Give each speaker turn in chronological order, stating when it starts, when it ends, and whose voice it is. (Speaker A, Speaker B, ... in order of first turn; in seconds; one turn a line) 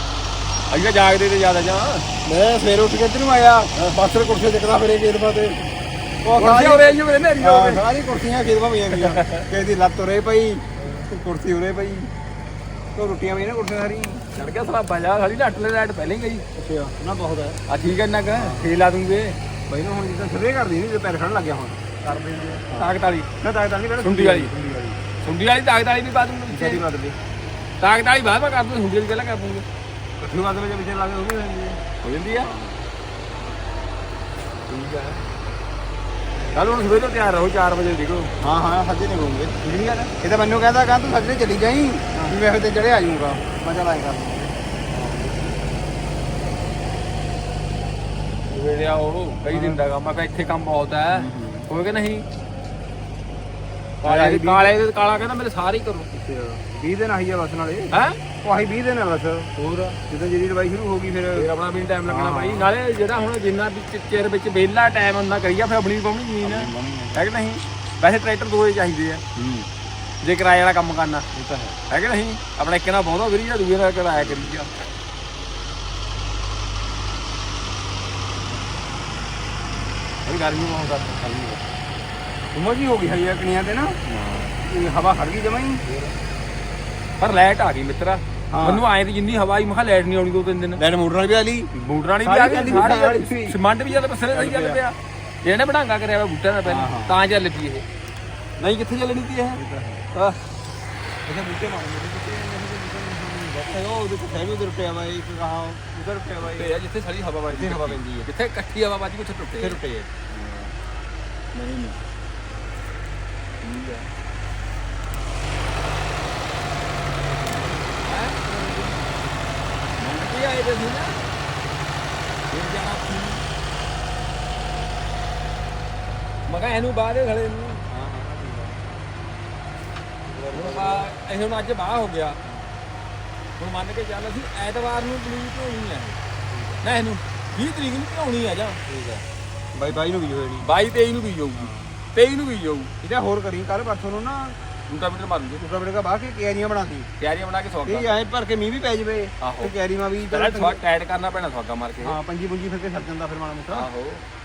Speaker A: 0.7-2.0
Speaker B: 2.2-5.7
Speaker B: 6.2-12.1
Speaker A: 6.3-7.8
Speaker A: 8.9-9.4
Speaker B: 12.9-14.2
Speaker A: 14.3-16.5
Speaker B: 16.6-17.6
Speaker A: 17.7-19.4
Speaker B: 18.3-18.7
Speaker B: 19.7-25.0
Speaker A: 22.7-23.3
Speaker A: 24.0-24.5
Speaker A: 25.2-26.8
Speaker B: 26.5-27.1
Speaker A: 27.8-29.6
Speaker B: 30.2-31.8
Speaker A: 32.0-32.5
Speaker B: 32.4-32.8
Speaker A: 34.7-35.2
Speaker A: 36.5-38.3
Speaker B: 38.4-44.5
Speaker A: 39.6-40.1
Speaker A: 44.9-45.4
Speaker B: 45.2-45.7
Speaker A: 48.5-52.2
Speaker B: 49.5-49.8
Speaker B: 51.1-51.6
Speaker B: 54.0-54.8
Speaker A: 54.0-56.1
Speaker B: 56.1-61.5
Speaker A: 57.9-58.2
Speaker A: 59.6-59.9
Speaker A: 61.3-69.2
Speaker B: 62.0-62.7
Speaker B: 66.4-67.2
Speaker B: 69.3-69.7
Speaker A: 70.2-71.2
Speaker B: 71.3-71.8
Speaker A: 71.9-74.7
Speaker B: 74.2-74.5
Speaker A: 80.2-81.7
Speaker B: 82.5-84.0
Speaker A: 84.0-84.6
Speaker B: 84.6-85.8
Speaker A: 85.8-86.2
Speaker A: 87.2-90.8
Speaker B: 88.5-88.8
Speaker B: 90.8-91.7
Speaker A: 91.7-97.8
Speaker B: 92.2-93.6
Speaker B: 94.3-94.8
Speaker B: 96.6-97.2
Speaker A: 98.6-99.6
Speaker B: 99.5-100.0
Speaker B: 101.2-106.7
Speaker A: 106.4-109.8
Speaker B: 107.5-108.3
Speaker B: 109.6-110.7
Speaker B: 111.5-111.9
Speaker B: 113.6-114.0
Speaker B: 117.4-119.1
Speaker A: 118.0-118.4
Speaker A: 120.0-121.1
Speaker A: 122.5-123.4
Speaker A: 126.5-127.8
Speaker B: 127.9-128.8
Speaker B: 130.3-131.1
Speaker A: 130.5-132.4
Speaker B: 132.4-132.7
Speaker A: 133.6-136.2
Speaker B: 136.5-136.8
Speaker A: 136.8-138.9
Speaker B: 138.9-139.2
Speaker B: 139.7-140.7
Speaker A: 140.6-142.9
Speaker B: 141.5-141.9
Speaker B: 143.0-144.6
Speaker A: 144.9-145.6
Speaker B: 145.6-147.1
Speaker A: 147.2-148.1
Speaker B: 147.8-150.8
Speaker A: 149.4-149.7
Speaker A: 150.3-152.2
Speaker B: 152.0-153.9
Speaker A: 153.7-154.2